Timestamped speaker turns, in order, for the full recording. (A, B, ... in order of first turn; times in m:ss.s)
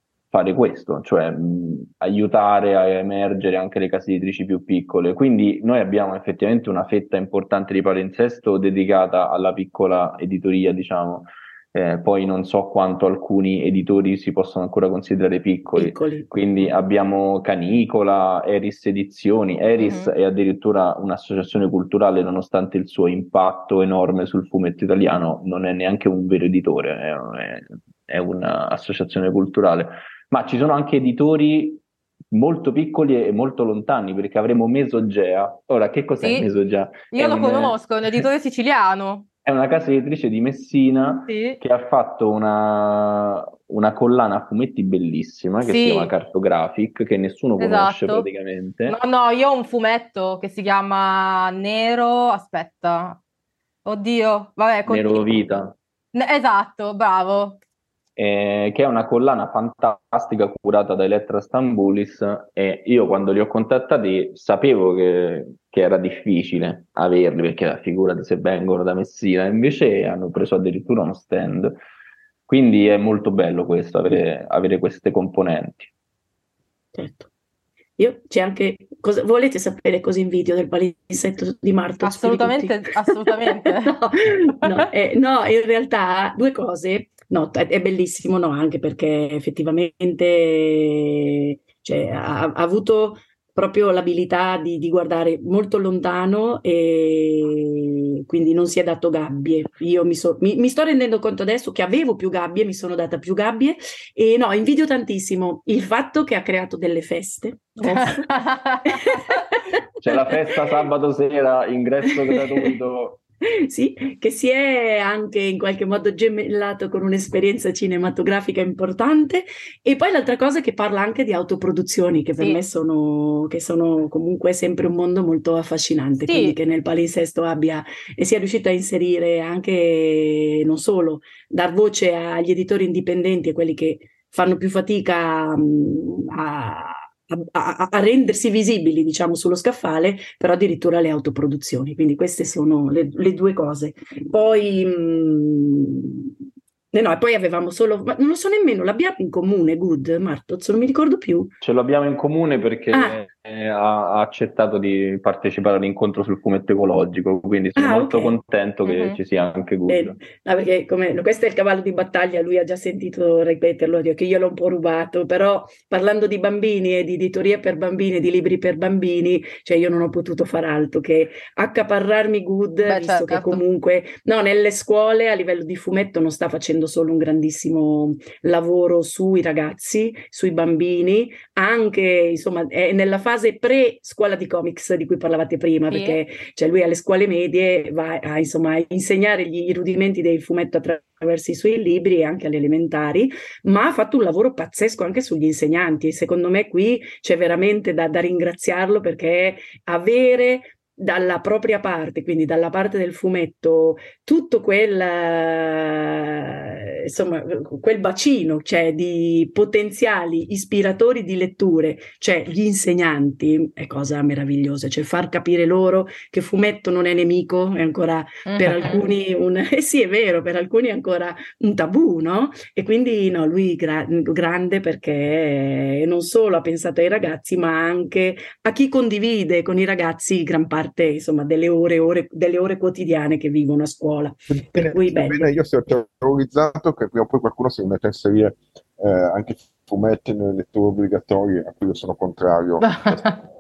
0:00.3-0:37.8 A
0:15.8-0:16.3 B
0:19.8-0:20.1 C
0:36.2-0:36.4 C
0:37.1-0:39.2 C
0:39.4-0:49.0 A
0:41.3-0:41.6 C
0:45.6-0:46.1 C
0:47.6-0:48.3 C
0:48.9-0:53.2 C
0:53.8-0:55.4 C
0:54.9-0:55.7 A
0:56.1-0:57.6 C
0:58.2-1:11.8 A
1:12.5-1:15.9 A
1:16.9-1:17.3 B
1:18.0-1:22.8 B
1:22.0-1:24.0 C
1:23.4-1:48.3 B
1:47.8-1:49.2 C
1:48.9-1:49.4 B
1:50.0-1:53.2 A
1:52.3-1:52.7 B
1:53.7-2:26.3 B
2:06.2-2:06.6 C
2:26.9-2:31.5 B
2:31.6-2:40.2 A
2:32.9-2:33.2 B
2:37.8-2:38.4 B
2:38.8-2:39.2 C
2:39.9-3:55.4 B
2:52.8-2:53.6 C
3:05.9-3:06.2 C
3:38.4-3:39.0 C
3:54.5-4:03.3 D
4:02.8-4:03.4 C